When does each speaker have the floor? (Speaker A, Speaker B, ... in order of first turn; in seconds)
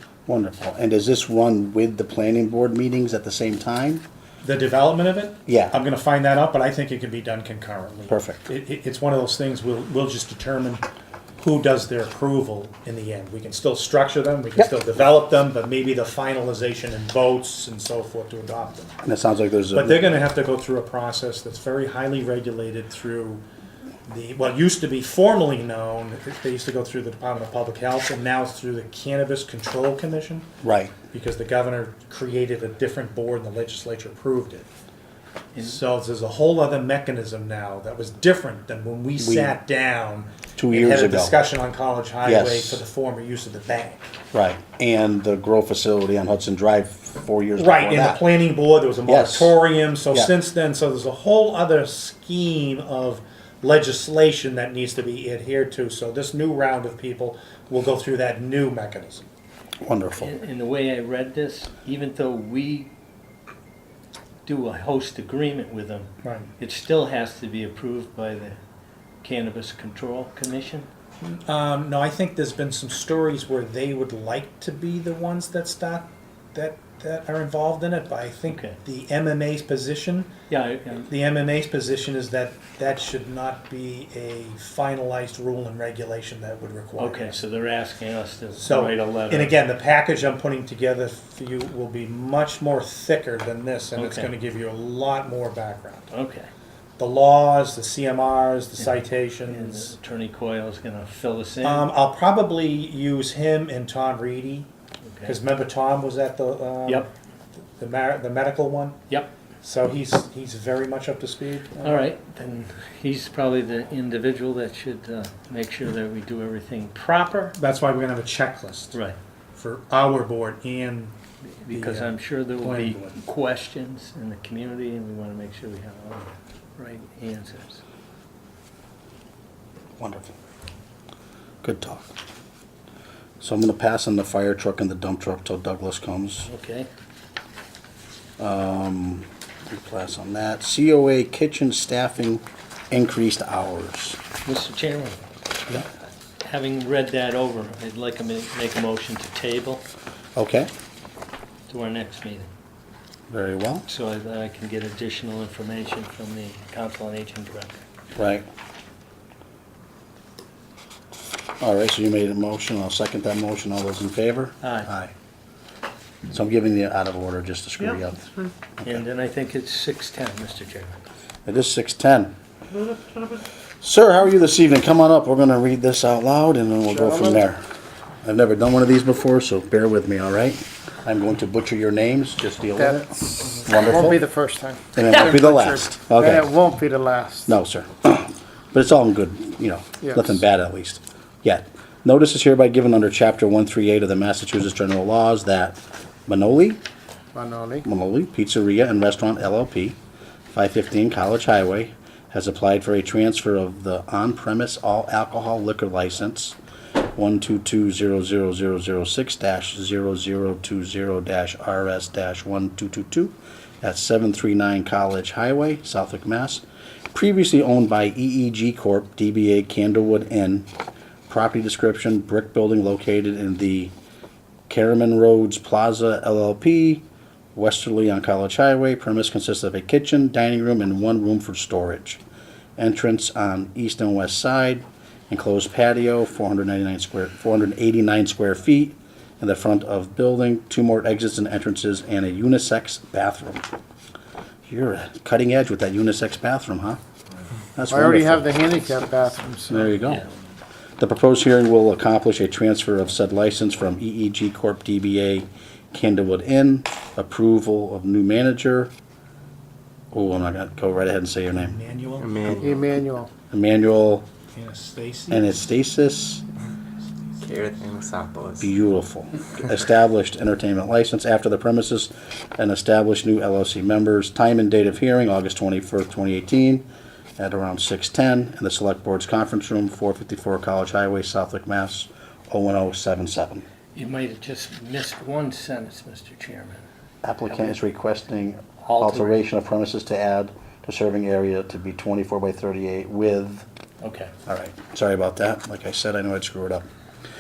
Speaker A: 0.3-4.0, 5.5-5.8, 8.1-8.5, 19.0-20.1, 30.6-30.9, 39.2-39.5, 40.6-41.4, 42.2-42.8, 44.3-48.3, 49.1-49.6, 59.8-60.3, 130.0-130.3, 131.6-132.1, 133.4-136.5, 138.4-144.2, 150.4-150.7, 153.3-153.9, 158.2-158.4, 161.6-165.1, 166.3-169.0, 171.5-172.3, 173.8-177.6, 178.2-184.2, 184.9-186.6, 187.4-196.8, 197.8-200.0, 200.5-206.6, 207.2-220.7, 221.3-223.9, 224.7-232.2, 232.8-243.7, 244.7-247.0, 247.8-248.5, 249.7-250.2, 251.0-258.9, 260.1-261.8, 263.5-264.3, 265.3-266.4, 268.6-276.9, 277.4-283.6, 287.2-293.7, 294.5-296.9
Speaker B: 4.4-10.8, 11.4-19.0, 19.7-23.4, 24.1-30.5, 31.1-34.7, 35.6-44.1, 47.6-59.2, 66.2-66.5, 71.2-80.3, 81.1-87.4, 88.6-96.1, 97.0-100.0, 101.6-104.7, 105.2-107.1, 107.8-109.0, 109.6-112.0, 117.5-119.0, 119.5-121.2, 121.7-123.2, 261.6-262.7, 264.5-265.6
Speaker C: 35.5-35.8, 60.2-62.9, 64.5-68.6, 69.2-70.9, 78.5-78.8, 80.5-81.1, 87.0-89.6, 94.0-94.3, 96.1-96.5, 98.8-101.9, 105.1-105.4, 111.8-117.5, 121.6-127.8, 136.4-136.9, 144.4-145.8, 146.4-149.8, 151.7-152.5, 153.9-157.8, 164.6-164.9, 168.8-171.0, 283.9-286.9, 288.8-289.4, 294.0-294.3
Speaker D: 176.9-177.4, 182.8-187.6, 190.0-190.4, 197.3-197.9, 247.9-249.9, 262.6-263.3
Speaker E: 262.2-262.8, 267.4-268.7